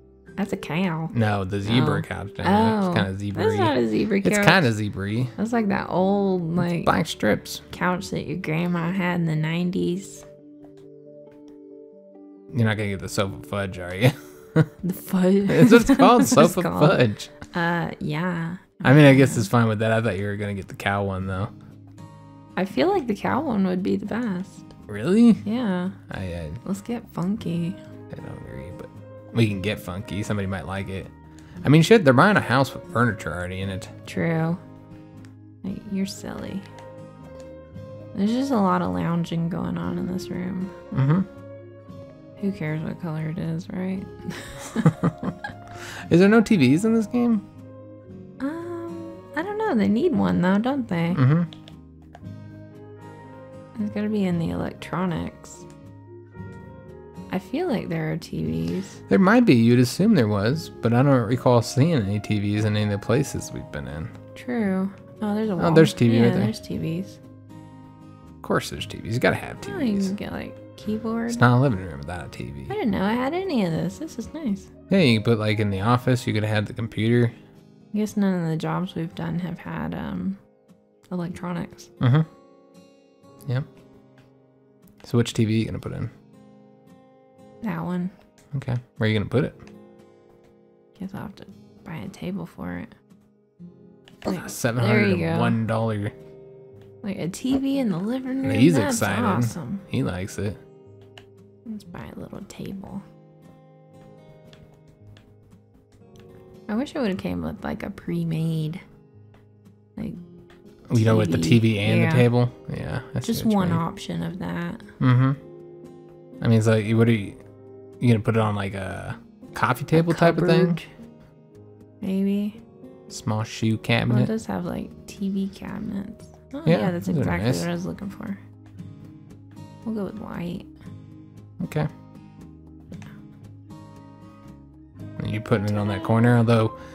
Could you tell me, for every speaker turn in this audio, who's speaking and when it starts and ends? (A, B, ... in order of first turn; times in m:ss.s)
0:00.4-0:04.7 A
0:01.1-0:05.3 B
0:05.4-0:06.9 A
0:06.6-0:07.6 B
0:07.7-0:10.2 A
0:12.5-0:14.7 B
0:14.8-0:19.5 A
0:15.5-0:17.3 B
0:18.8-0:21.5 B
0:22.6-0:24.7 A
0:24.9-0:25.4 B
0:25.4-0:26.0 A
0:26.1-0:26.6 B
0:26.6-0:27.8 A
0:28.1-0:31.1 B
0:31.6-0:33.9 B
0:34.0-0:34.6 A
0:35.6-0:36.7 A
0:38.1-0:40.7 A
0:40.9-0:41.3 B
0:42.4-0:45.0 A
0:44.7-0:45.3 B
0:46.1-0:47.4 B
0:48.4-0:51.2 A
0:51.1-0:51.5 B
0:53.8-0:55.7 A
0:57.3-0:59.0 A
0:59.1-1:04.1 B
1:04.3-1:07.2 A
1:05.6-1:06.5 B
1:08.4-1:10.1 B
1:09.6-1:11.4 A
1:11.3-1:12.7 B
1:12.7-1:14.7 A
1:14.9-1:17.4 B
1:17.9-1:20.4 A
1:21.1-1:21.9 A
1:22.0-1:22.2 B
1:25.0-1:26.1 B
1:27.6-1:28.1 A
1:28.5-1:29.6 B
1:31.0-1:32.9 A
1:34.2-1:35.6 A
1:34.3-1:36.1 B
1:37.0-1:39.8 A
1:38.4-1:40.6 B
1:41.6-1:43.0 A
1:46.7-1:48.8 A
1:50.0-1:50.2 A
1:50.9-1:53.8 B
1:50.9-1:52.3 A
1:53.2-1:54.8 A
1:55.0-1:55.4 B
1:56.4-1:57.4 B
1:58.0-2:00.8 B
1:59.9-2:00.9 A
2:02.0-2:02.6 A
2:03.1-2:04.3 B
2:04.1-2:08.4 A
2:06.6-2:07.7 B
2:09.8-2:10.7 A
2:11.6-2:11.9 B
2:15.2-2:16.7 B